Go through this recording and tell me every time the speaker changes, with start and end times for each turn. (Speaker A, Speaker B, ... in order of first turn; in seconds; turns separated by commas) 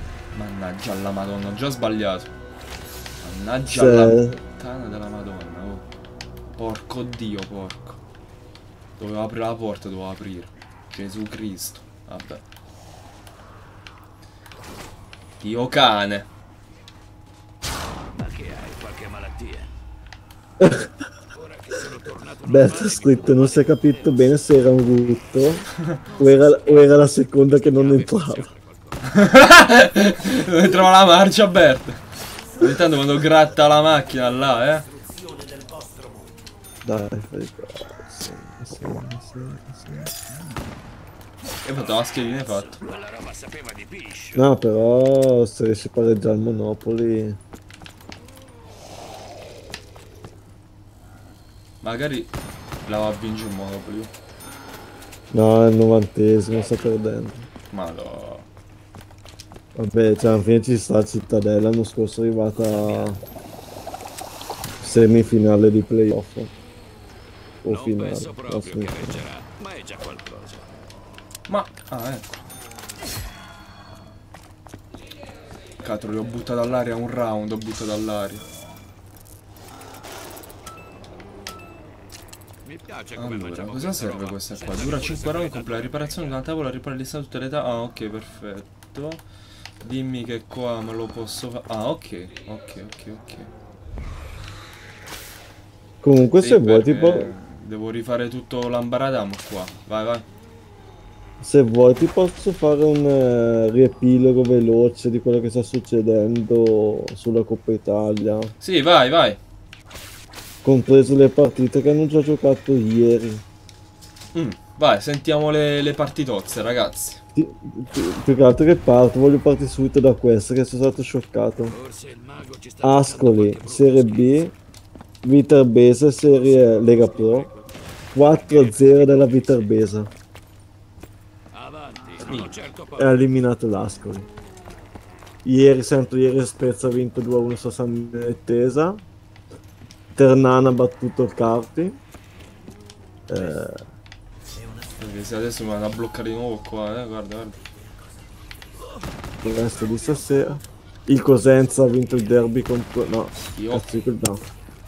Speaker A: 0.3-2.3, Speaker A: 3.2-5.8, Speaker B: 3.7-4.4, Speaker A: 6.6-8.0, Speaker A: 9.0-12.4, Speaker A: 15.4-16.3, Speaker C: 18.1-19.7, Speaker B: 20.6-20.9, Speaker C: 21.3-24.4, Speaker B: 22.4-25.7, Speaker C: 25.2-25.5, Speaker C: 26.0-29.6, Speaker B: 26.2-28.5, Speaker A: 29.1-32.0, Speaker C: 30.2-30.5, Speaker A: 32.6-34.8, Speaker C: 34.3-36.3, Speaker B: 36.9-40.1, Speaker A: 41.6-42.8, Speaker C: 41.8-44.4, Speaker B: 44.3-47.4, Speaker A: 51.8-52.3, Speaker A: 52.9-54.1, Speaker B: 55.3-57.5, Speaker A: 57.7-58.5, Speaker B: 59.8-63.2, Speaker B: 64.8-66.5, Speaker B: 67.6-69.3, Speaker C: 67.7-70.8, Speaker A: 71.5-72.4, Speaker A: 75.8-78.5, Speaker C: 82.7-86.4, Speaker A: 83.2-89.2, Speaker A: 89.8-93.5, Speaker B: 96.0-97.3, Speaker A: 96.4-100.3, Speaker B: 101.4-108.5, Speaker A: 108.6-109.4, Speaker B: 110.6-113.4, Speaker A: 114.3-117.2, Speaker B: 117.4-121.8, Speaker C: 121.7-124.5, Speaker B: 122.8-124.5, Speaker B: 125.2-127.5, Speaker C: 126.4-129.8, Speaker B: 128.1-130.1, Speaker C: 131.5-133.3, Speaker A: 132.3-132.5, Speaker B: 133.0-134.3, Speaker B: 135.4-139.0, Speaker B: 140.2-142.0, Speaker B: 143.3-143.8, Speaker A: 145.0-147.6, Speaker B: 149.4-154.4, Speaker A: 153.6-153.9